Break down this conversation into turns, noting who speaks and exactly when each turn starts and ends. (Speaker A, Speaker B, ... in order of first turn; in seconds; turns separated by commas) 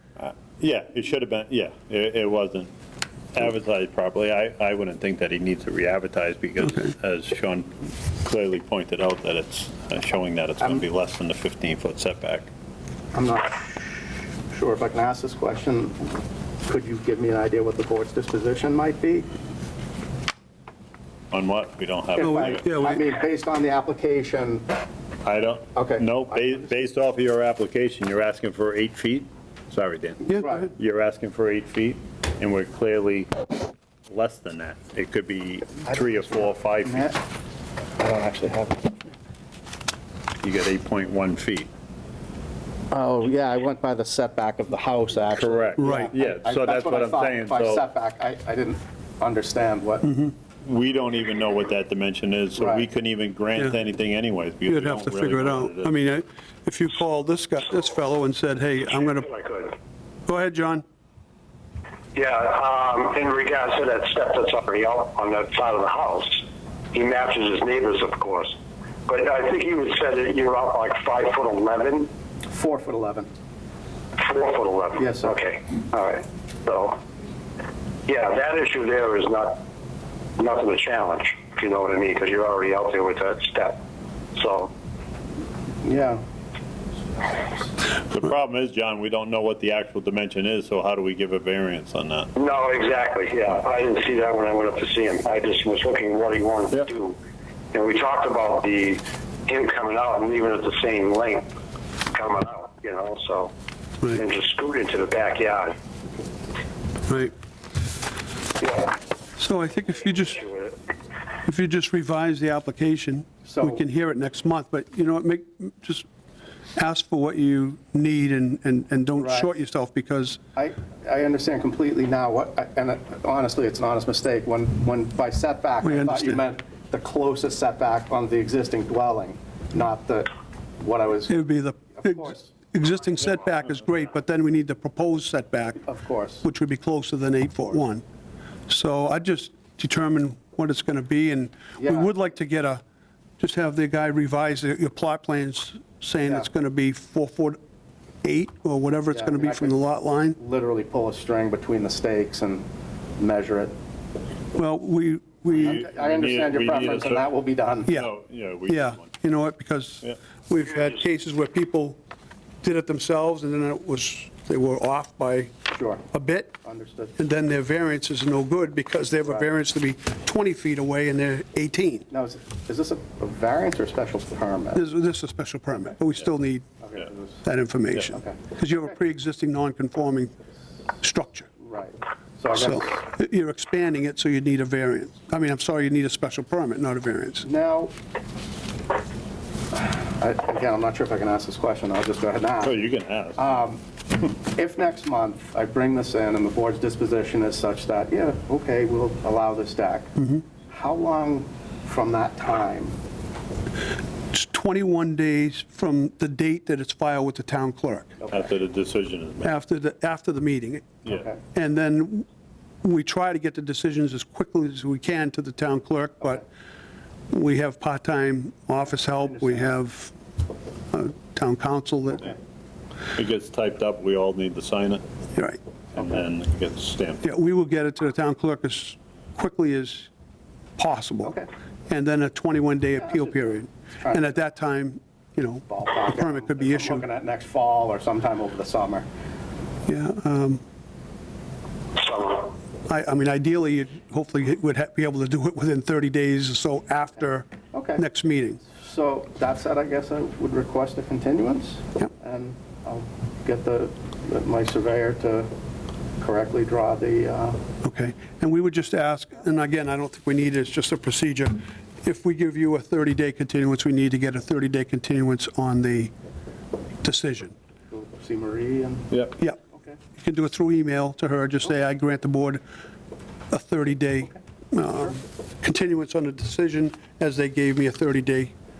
Speaker A: 0.2-2.7, Speaker A: 3.3-12.5, Speaker B: 13.1-19.3, Speaker A: 21.3-22.6, Speaker B: 22.2-24.7, Speaker C: 22.2-23.0, Speaker A: 25.2-33.3, Speaker B: 25.7-26.7, Speaker C: 30.3-30.6, Speaker B: 30.3-30.7, Speaker A: 34.1-37.2, Speaker B: 35.9-37.2, Speaker B: 38.0-39.0, Speaker A: 40.4-41.7, Speaker B: 42.9-50.1, Speaker A: 45.3-47.8, Speaker C: 45.8-46.1, Speaker C: 50.0-50.3, Speaker A: 50.6-55.9, Speaker B: 52.6-52.9, Speaker C: 54.6-59.3, Speaker D: 59.3-59.8, Speaker C: 60.3-60.8, Speaker D: 62.1-72.1, Speaker B: 72.5-73.3, Speaker D: 74.2-77.0, Speaker B: 75.0-75.4, Speaker D: 78.0-79.6, Speaker D: 80.4-83.8, Speaker D: 84.3-84.7, Speaker B: 85.8-86.2, Speaker A: 88.1-92.3, Speaker D: 92.3-97.2, Speaker D: 97.7-101.5, Speaker D: 102.1-103.5, Speaker D: 104.1-105.7, Speaker D: 108.6-109.0, Speaker C: 109.4-110.5, Speaker D: 110.3-110.7, Speaker C: 111.5-116.0, Speaker B: 113.5-113.8, Speaker C: 116.8-120.4, Speaker B: 119.1-119.5, Speaker B: 120.5-132.5, Speaker C: 125.8-126.4, Speaker C: 131.3-135.8, Speaker B: 135.8-136.4, Speaker C: 136.4-138.0, Speaker C: 138.7-142.8, Speaker B: 141.8-142.1, Speaker C: 143.4-147.6, Speaker C: 148.2-150.4, Speaker B: 149.1-149.8, Speaker B: 150.3-152.7, Speaker B: 153.2-153.7, Speaker C: 154.5-155.8, Speaker B: 155.5-158.0, Speaker A: 155.7-157.2, Speaker A: 157.9-159.1, Speaker C: 158.7-162.0, Speaker C: 162.6-165.5, Speaker B: 165.7-166.0, Speaker C: 166.1-166.6, Speaker B: 166.6-167.2, Speaker C: 167.2-172.1, Speaker B: 172.1-174.8, Speaker C: 174.7-176.7, Speaker B: 176.8-177.4, Speaker C: 177.4-180.3, Speaker B: 178.1-178.4, Speaker C: 181.0-181.5, Speaker B: 181.6-183.0, Speaker C: 182.5-187.5, Speaker B: 187.4-187.9, Speaker B: 189.8-192.8, Speaker A: 192.6-193.5, Speaker B: 193.3-200.1, Speaker C: 200.2-200.4, Speaker B: 200.7-203.0, Speaker C: 204.3-208.2, Speaker B: 208.2-208.5, Speaker A: 208.3-209.6, Speaker C: 209.4-212.3, Speaker B: 211.1-211.4, Speaker C: 212.8-216.4, Speaker C: 217.3-220.1, Speaker B: 219.2-219.7, Speaker C: 220.9-222.3, Speaker A: 223.1-225.0, Speaker C: 225.3-225.6, Speaker A: 225.9-227.3, Speaker C: 227.2-230.1, Speaker C: 230.8-237.0, Speaker B: 233.0-234.3, Speaker B: 235.7-239.1, Speaker C: 239.8-240.6, Speaker D: 242.0-242.5, Speaker C: 242.9-248.6, Speaker B: 247.7-248.0, Speaker B: 248.6-255.5, Speaker B: 256.2-257.6, Speaker C: 257.8-266.1, Speaker C: 267.0-267.6, Speaker B: 267.9-269.1, Speaker B: 269.7-270.0, Speaker C: 270.2-272.6, Speaker C: 273.5-278.5